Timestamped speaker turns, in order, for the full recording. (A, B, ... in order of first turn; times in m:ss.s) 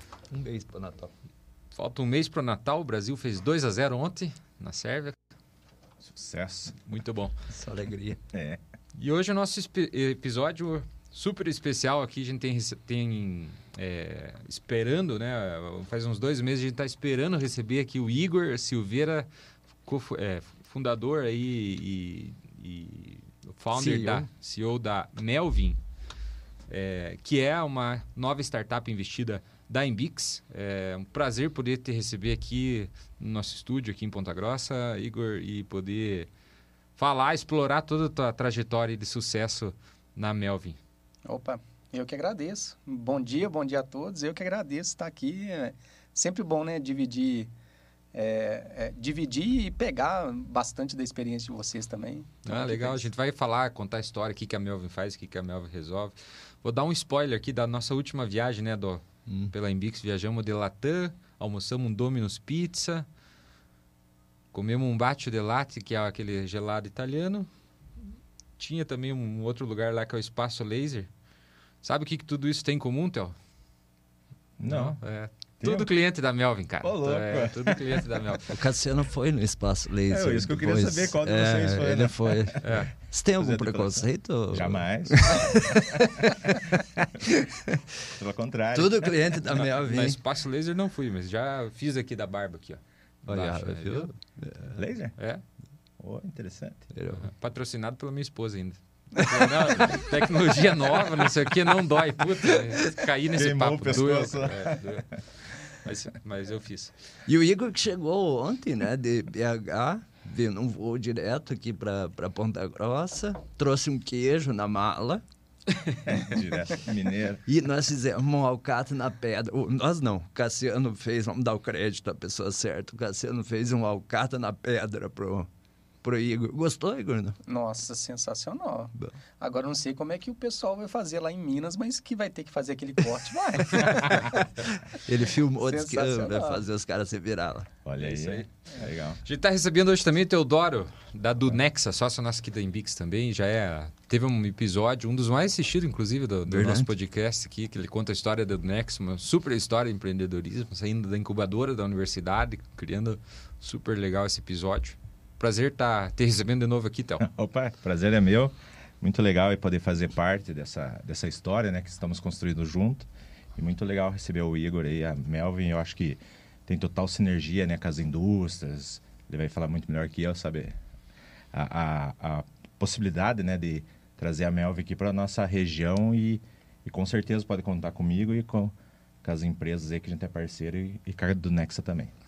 0:00.3-0:01.1 A
0:01.7-0:05.1 B
0:06.0-0:06.7 C
0:06.8-0:07.3 B
0:07.5-0:08.2 A
0:08.3-0:08.6 C
0:08.9-0:19.3 B
0:19.8-0:25.8 B
0:23.7-0:24.3 A
0:26.7-0:36.3 B
0:37.0-0:40.8 B
0:41.3-0:47.5 D
0:48.1-0:53.0 D
0:52.4-1:03.0 B
0:59.3-0:59.5 A
1:04.5-1:07.5 B
1:08.6-1:11.1 B
1:11.8-1:13.3 B
1:14.6-1:15.0 C
1:14.6-1:18.5 B
1:15.6-1:15.9 C
1:16.8-1:18.0 C
1:18.5-1:26.8 A
1:20.1-1:22.6 C
1:22.6-1:22.9 B
1:23.4-1:26.1 C
1:28.2-1:29.1 C
1:28.7-1:30.2 A
1:29.8-1:34.1 B
1:33.2-1:34.7 A
1:34.7-1:35.1 C
1:35.2-1:35.4 B
1:36.0-1:36.9 C
1:36.9-1:37.2 A
1:37.2-1:46.9 B
1:43.3-1:45.0 C
1:47.3-1:55.2 A
1:56.0-1:57.4 C
1:57.4-2:05.5 A
2:06.0-2:07.4 A
2:07.4-2:14.4 D
2:14.9-2:17.7 A
2:15.6-2:16.6 D
2:17.8-2:19.2 C
2:18.0-2:18.5 B
2:19.2-2:37.2 B
2:26.5-2:26.9 A
2:37.2-2:50.7 C
2:51.5-3:02.1 C